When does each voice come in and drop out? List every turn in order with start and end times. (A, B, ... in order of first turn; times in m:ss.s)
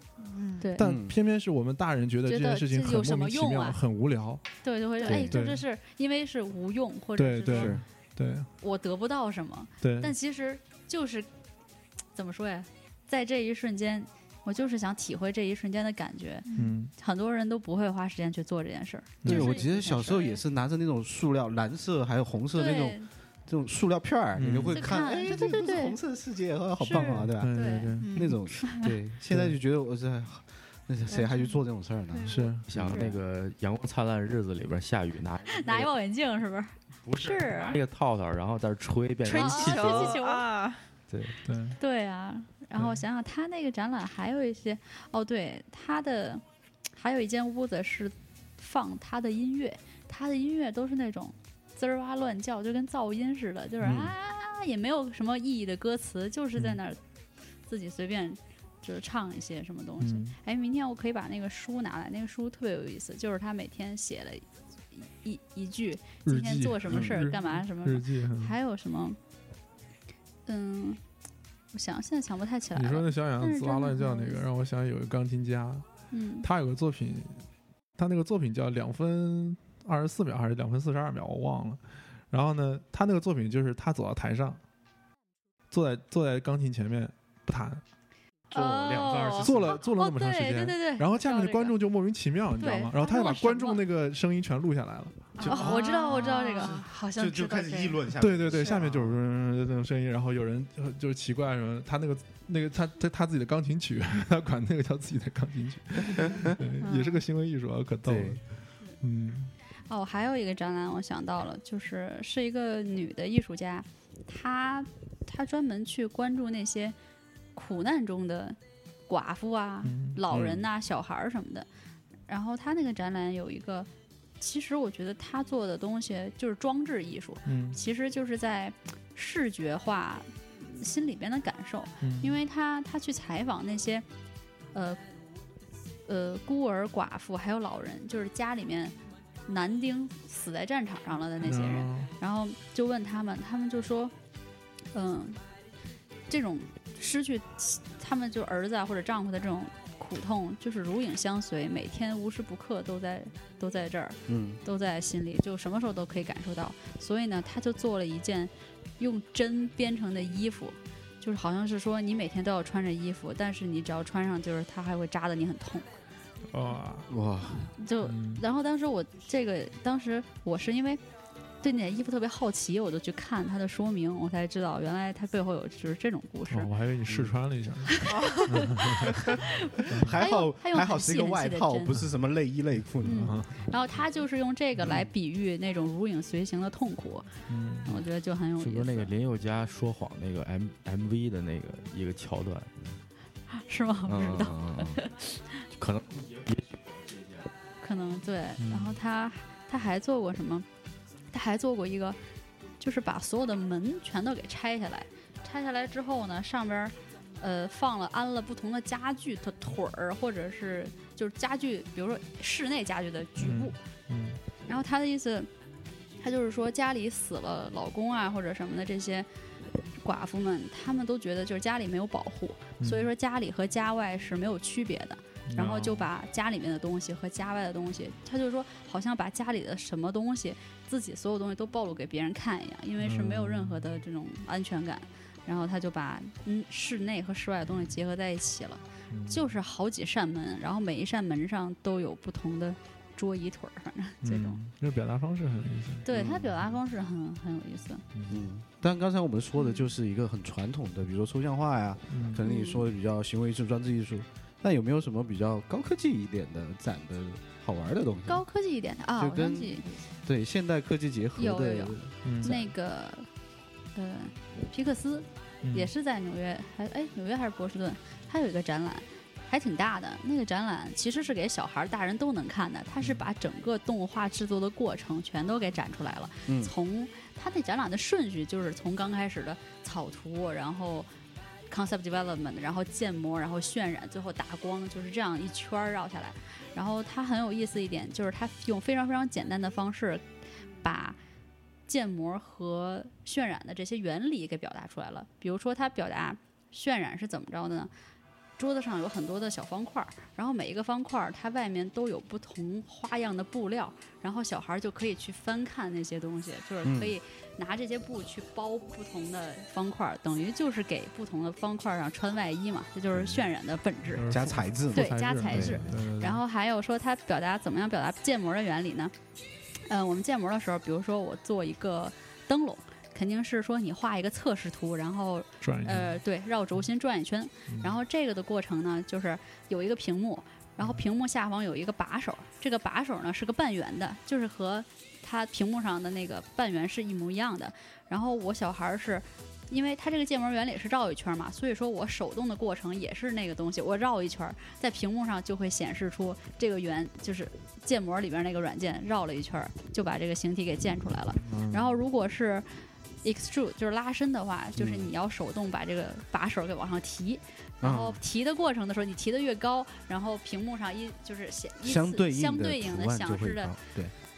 0:00.2-0:00.7 A
0:00.6-0:00.8 B
0:00.8-0:04.4 C
0:00.8-0:01.2 D
0:02.2-0:03.8 B
0:04.6-0:07.8 B
0:05.0-0:05.4 D
0:05.0-0:05.6 C
0:07.2-0:08.5 C
0:07.5-0:07.8 D
0:08.6-0:11.3 B
0:09.8-0:10.1 C
0:12.1-0:20.4 B
0:16.5-0:16.7 A
0:16.6-0:16.9 C
0:19.2-0:19.5 C
0:19.2-0:33.0 D
0:22.5-0:23.1 B
0:24.3-0:24.9 C
0:24.7-0:26.0 B
0:26.8-0:28.0 B
0:26.9-0:28.1 C
0:28.0-0:28.8 A
0:31.1-0:31.5 B
0:32.3-0:32.6 C
0:32.7-0:35.9 E
0:32.9-0:33.2 B
0:35.5-0:37.8 B
0:37.0-0:40.2 E
0:39.2-0:40.8 A
0:39.3-0:40.5 B
0:41.1-0:41.4 E
0:41.4-0:41.8 C
0:41.8-0:57.0 B
0:42.8-0:43.0 C
0:53.8-0:54.1 C
0:57.7-1:09.2 B
1:00.0-1:00.4 C
1:06.2-1:08.6 C
1:06.9-1:07.2 D
1:10.5-1:11.0 B
1:11.7-1:14.4 B
1:12.7-1:15.8 C
1:16.1-1:16.5 B
1:16.4-1:17.4 C
1:18.0-1:24.6 C
1:25.7-1:27.8 C
1:28.5-1:31.8 B
1:28.5-1:29.8 D
1:29.4-1:35.4 C
1:32.6-1:33.8 B
1:35.4-1:38.0 A
1:35.4-1:35.9 D
1:35.4-1:36.8 B
1:36.6-1:39.2 D
1:38.2-1:48.4 C
1:46.2-1:46.5 D
1:46.8-1:47.2 B
1:48.0-1:48.4 D
1:49.0-1:49.5 C
1:49.9-1:57.0 B
1:57.5-2:01.7 B
1:59.8-2:00.5 C
2:02.3-2:14.0 B
2:07.4-2:07.8 C
2:12.0-2:12.4 C
2:14.7-2:15.0 B
2:16.0-2:24.1 B
2:21.4-2:22.1 C
2:24.9-2:25.4 B
2:26.3-2:45.9 B
2:34.3-2:34.6 D
2:46.5-2:47.1 C
2:47.1-2:47.7 D
2:47.7-2:51.0 B
2:48.0-2:48.4 C
2:51.6-2:56.7 B
2:56.5-2:59.3 C
2:57.1-2:57.3 D
2:57.9-3:02.0 B
2:59.0-3:03.4 D
2:59.9-3:00.2 C
3:03.0-3:09.1 B
3:03.1-3:03.7 C
3:07.5-3:08.0 C
3:08.6-3:13.0 E
3:13.5-3:15.6 B
3:14.1-3:15.0 E
3:15.7-3:17.5 E
3:17.8-3:20.7 B
3:18.6-3:18.9 E
3:21.3-3:22.2 B
3:22.8-3:33.8 B
3:33.4-3:34.4 C
3:34.6-3:35.5 B
3:36.2-3:39.3 B
3:40.0-4:04.6 B
3:42.8-3:43.1 C
3:45.5-3:46.1 C
3:53.0-3:54.0 C
3:59.1-3:59.5 C
4:04.2-4:06.0 C
4:06.0-4:08.0 B
4:06.1-4:06.6 D
4:08.1-4:08.4 C
4:08.3-4:18.4 D
4:12.1-4:12.4 C
4:12.4-4:12.8 B
4:18.3-4:20.0 B
4:19.2-4:22.7 D
4:21.4-4:23.3 B
4:22.2-4:22.6 C
4:23.9-4:41.1 B
4:25.6-4:25.9 C
4:36.5-4:36.7 D
4:41.7-4:50.3 B
4:50.8-4:51.2 B
4:51.9-4:57.9 B
4:58.6-5:14.3 B
5:06.8-5:07.1 D
5:14.1-5:16.4 C
5:14.3-5:15.9 D
5:14.9-5:19.1 B
5:19.9-6:03.8 B
5:25.6-5:26.2 C
5:27.7-5:28.0 C
5:51.5-5:51.9 C
5:54.8-5:55.1 D
5:57.8-5:58.2 D
6:01.8-6:04.1 D